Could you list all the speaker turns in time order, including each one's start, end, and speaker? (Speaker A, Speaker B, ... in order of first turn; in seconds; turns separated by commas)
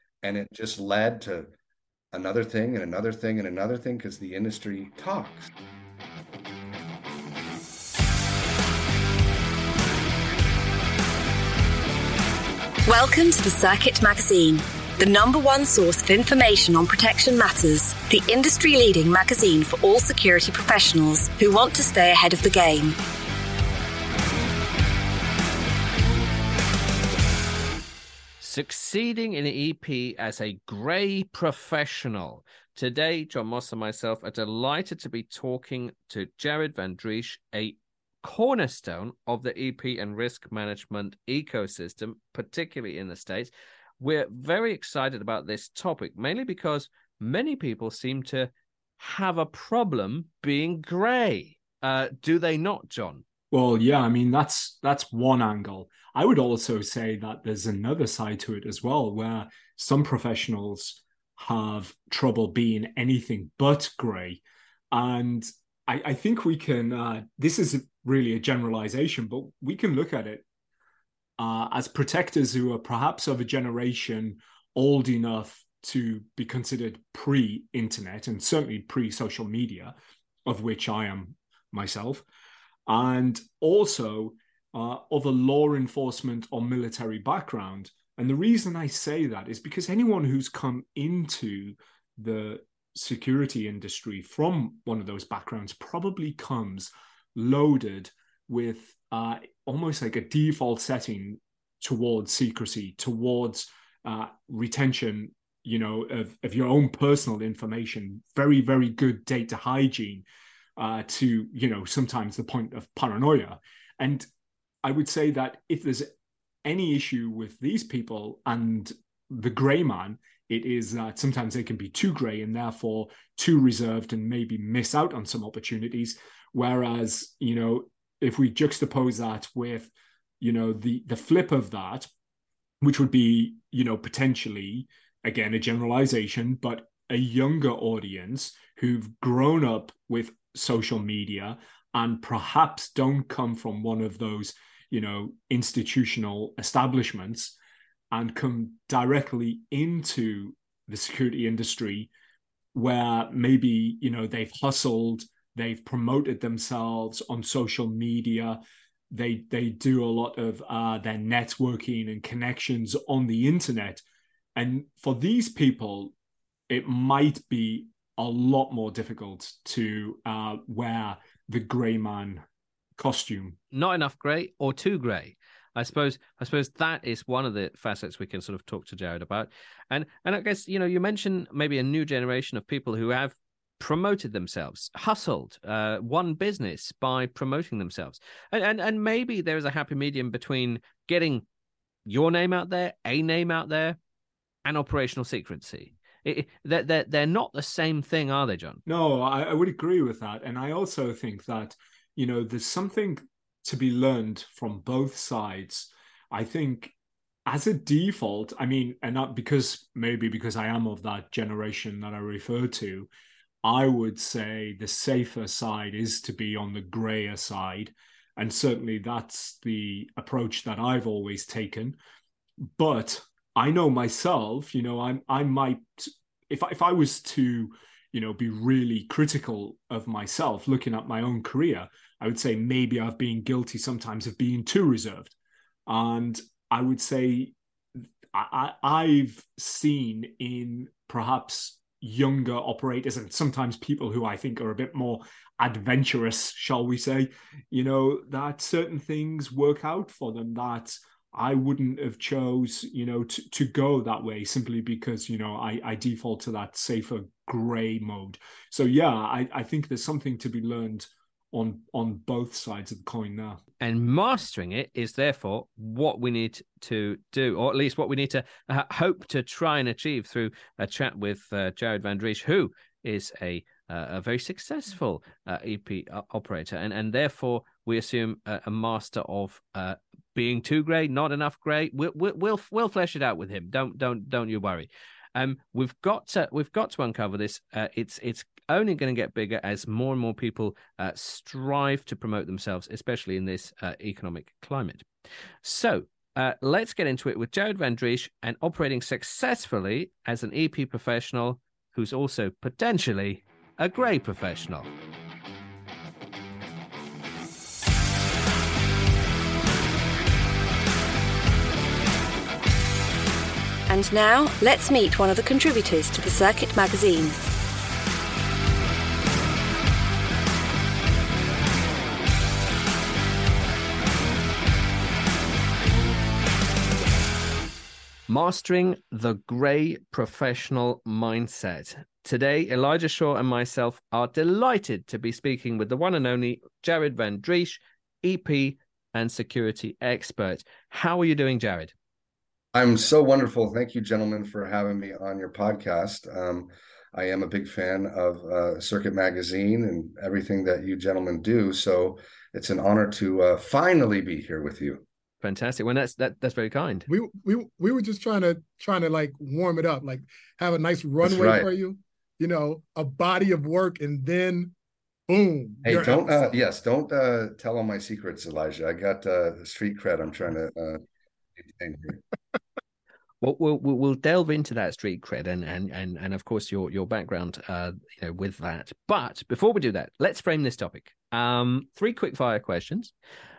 Speaker A: 0.2-1.5, Speaker A: 2.1-5.5, Speaker B: 12.9-23.0, Speaker C: 28.4-53.2, Speaker D: 53.5-64.4, Speaker D: 64.9-70.4, Speaker D: 71.4-79.9, Speaker D: 80.5-82.2, Speaker D: 82.8-110.2, Speaker D: 110.8-114.2, Speaker D: 114.8-116.1, Speaker D: 116.6-132.1, Speaker D: 132.8-147.5, Speaker D: 148.1-152.1, Speaker D: 152.7-164.0, Speaker D: 164.6-166.1, Speaker D: 166.7-172.4, Speaker D: 173.0-173.6, Speaker C: 173.7-191.4, Speaker C: 192.1-194.0, Speaker C: 194.6-198.8, Speaker D: 198.8-206.9, Speaker D: 207.4-213.1, Speaker D: 213.6-222.0, Speaker D: 222.6-235.3, Speaker D: 235.9-237.5, Speaker D: 238.3-263.6, Speaker C: 263.8-295.1, Speaker C: 295.6-304.9, Speaker B: 313.9-317.4, Speaker C: 328.3-341.9, Speaker A: 342.7-355.0, Speaker C: 355.4-357.1, Speaker E: 357.1-364.7, Speaker A: 361.2-361.7, Speaker E: 365.3-366.6, Speaker A: 365.8-371.0, Speaker A: 371.6-372.2, Speaker C: 373.4-383.1